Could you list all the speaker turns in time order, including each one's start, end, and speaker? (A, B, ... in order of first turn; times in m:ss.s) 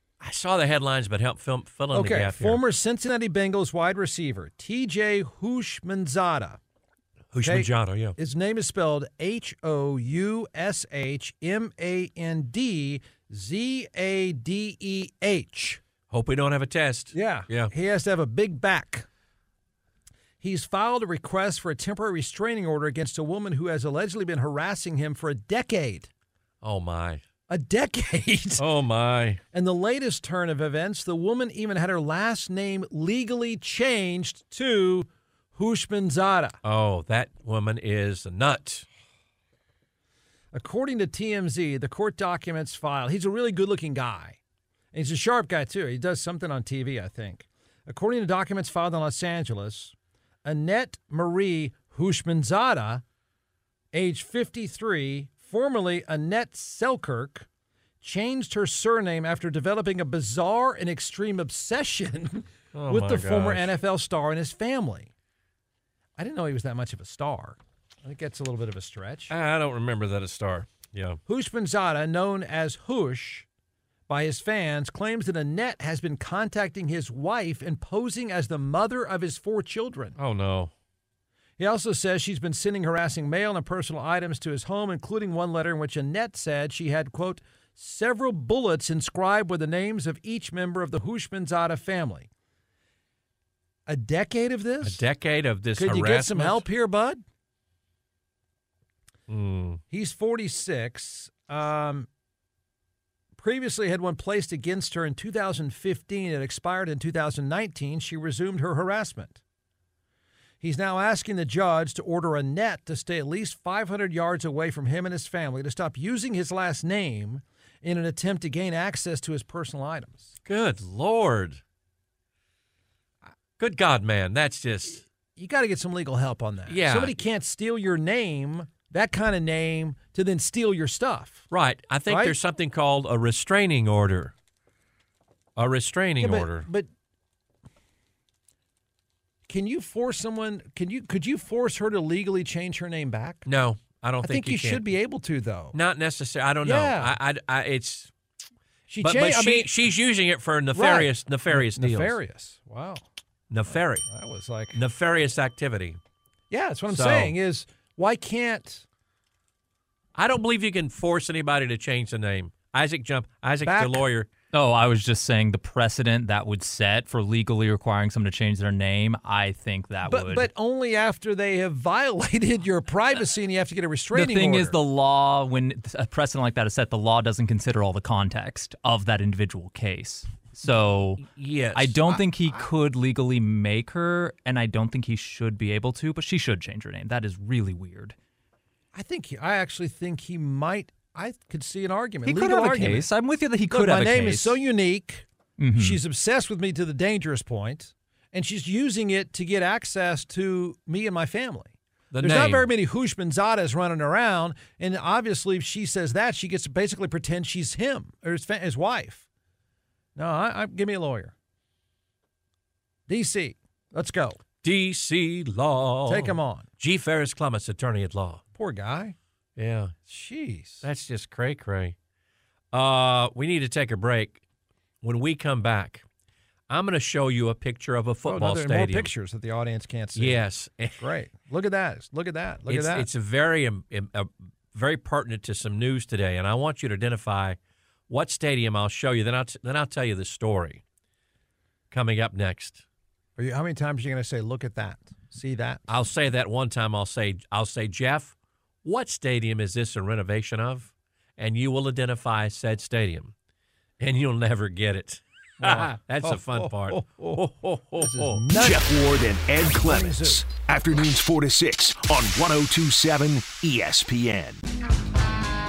0:00.2-0:02.6 A
0:01.9-0:06.6 B
0:07.3-0:08.2 A
0:07.4-0:15.8 B
0:16.1-0:17.7 A
0:17.1-0:19.1 B
0:20.4-0:26.1 B
0:26.6-0:27.2 A
0:27.5-0:28.6 B
0:28.6-0:29.4 A
0:29.5-0:36.6 B
0:36.6-0:38.9 A
0:40.5-0:44.4 B
0:44.9-0:53.0 B
0:53.9-0:57.5 B
0:58.0-1:05.1 B
1:02.7-1:03.7 A
1:06.2-1:09.3 B
1:09.3-1:11.2 A
1:11.3-1:13.5 B
1:14.1-1:20.2 B
1:20.2-1:20.7 A
1:21.6-1:32.3 B
1:33.9-1:35.0 B
1:34.8-1:36.6 A
1:35.7-1:37.2 B
1:39.3-1:39.8 A
1:39.9-1:42.1 B
1:43.4-1:49.4 B
1:50.6-2:00.3 B
2:00.4-2:01.6 A
2:03.6-2:05.0 A
2:05.4-2:11.5 B
2:06.7-2:07.1 A
2:11.5-2:14.3 A
2:12.1-2:12.4 B
2:15.6-2:16.7 A
2:16.2-2:16.9 B
2:19.5-2:23.4 B
2:23.4-2:24.8 A
2:24.2-2:25.8 B
2:25.7-2:28.1 A
2:26.6-2:27.2 B
2:28.9-2:29.7 B
2:29.0-2:32.2 A
2:30.7-2:33.0 B
2:33.5-2:34.0 A
2:34.0-2:34.8 B
2:34.7-2:36.0 A
2:36.5-2:38.8 B
2:36.9-2:37.3 A
2:40.2-2:44.3 A
2:43.6-2:44.0 B
2:44.5-2:50.5 C
2:50.1-2:54.8 B
2:54.1-3:08.1 C
3:01.2-3:02.0 A
3:02.1-3:02.6 B
3:08.9-3:13.1 B
3:12.2-3:14.6 C
3:13.7-3:29.2 B
3:15.6-3:16.0 C
3:22.1-3:22.7 A
3:30.2-3:31.3 B
3:33.1-3:34.4 B
3:34.6-3:38.4 A
3:36.1-3:36.6 B
3:38.6-3:39.2 B
3:39.6-3:39.9 A
3:40.0-3:40.8 B
3:40.8-3:41.9 A
3:42.7-3:44.4 A
3:45.0-3:46.0 A
3:46.7-3:49.1 A
3:48.2-3:50.4 B
3:50.1-3:51.1 A
3:51.0-3:53.1 B
3:52.7-3:57.6 A
3:58.1-4:00.8 A
4:01.9-4:02.8 A
4:03.4-4:05.8 B
4:05.9-4:13.3 A
4:14.0-4:18.4 A
4:15.6-4:17.4 B
4:18.0-4:18.8 B
4:18.5-4:24.6 D
4:19.8-4:20.4 B